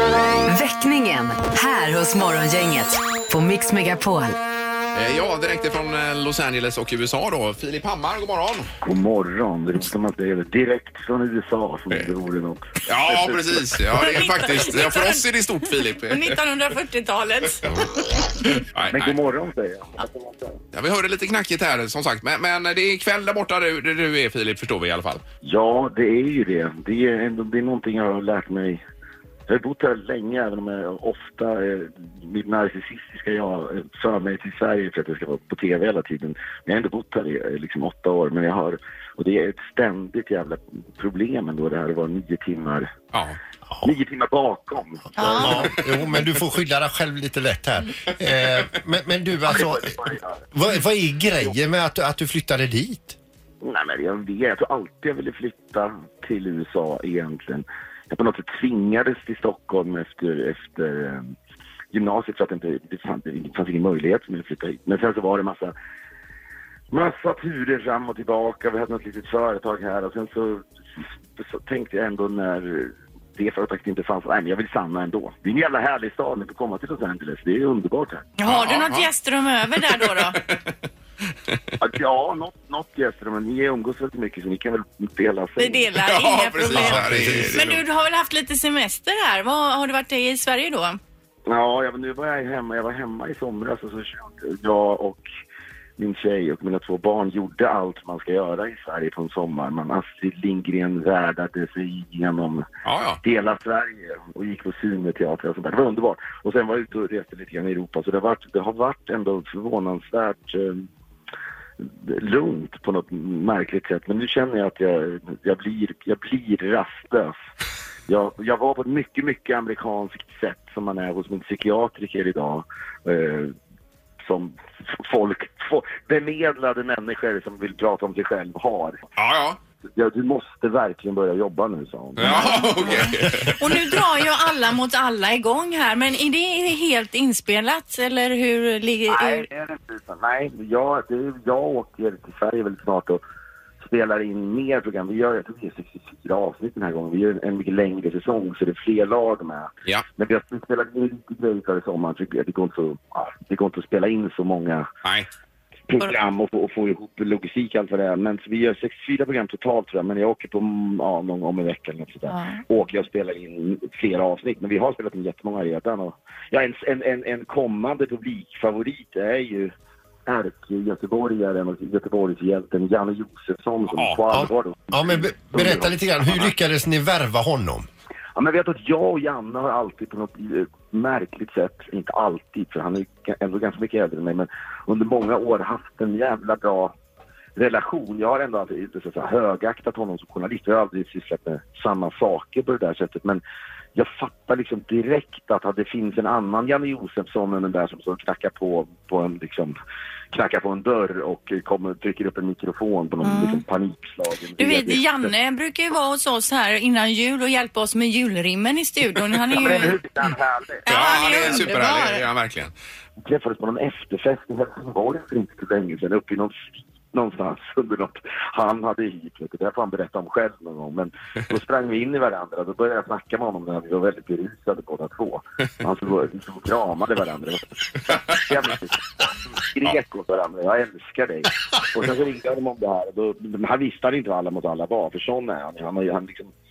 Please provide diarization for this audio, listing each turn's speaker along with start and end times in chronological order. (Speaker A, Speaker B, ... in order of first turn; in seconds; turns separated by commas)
Speaker A: 0.5-4.4, Speaker B: 4.9-8.7, Speaker C: 8.8-13.4, Speaker B: 12.9-16.4, Speaker D: 13.9-15.2, Speaker D: 16.1-18.4, Speaker B: 18.7-19.2, Speaker C: 18.9-20.6, Speaker B: 20.7-25.2, Speaker C: 25.4-28.8, Speaker C: 29.5-42.9, Speaker B: 43.1-43.4, Speaker C: 43.8-45.8, Speaker D: 45.2-45.8, Speaker E: 45.4-53.2, Speaker C: 49.5-50.4, Speaker C: 53.6-61.3, Speaker C: 61.9-65.7, Speaker C: 66.9-78.3, Speaker D: 78.4-80.4, Speaker B: 78.4-79.1, Speaker B: 79.9-80.7, Speaker C: 81.8-85.9, Speaker D: 85.6-91.0, Speaker B: 86.0-87.8, Speaker E: 86.6-87.6, Speaker C: 91.5-95.2, Speaker C: 96.0-102.7, Speaker B: 102.8-103.2, Speaker C: 103.2-110.9, Speaker C: 111.8-117.3, Speaker C: 118.1-123.5, Speaker C: 124.2-129.0, Speaker B: 129.2-129.6, Speaker C: 129.9-132.9, Speaker B: 132.2-133.7, Speaker D: 132.2-139.5, Speaker C: 139.1-143.2, Speaker C: 143.8-154.9, Speaker C: 155.9-169.7, Speaker D: 162.3-162.6, Speaker C: 170.3-175.9, Speaker B: 173.9-174.2, Speaker E: 174.3-177.9, Speaker B: 176.3-176.5, Speaker C: 178.4-186.9, Speaker C: 187.6-193.4, Speaker C: 193.9-199.8, Speaker C: 200.3-205.3, Speaker D: 203.2-203.6, Speaker D: 204.6-210.0, Speaker C: 209.5-210.8, Speaker D: 210.8-212.3, Speaker B: 210.9-212.7, Speaker C: 213.2-236.5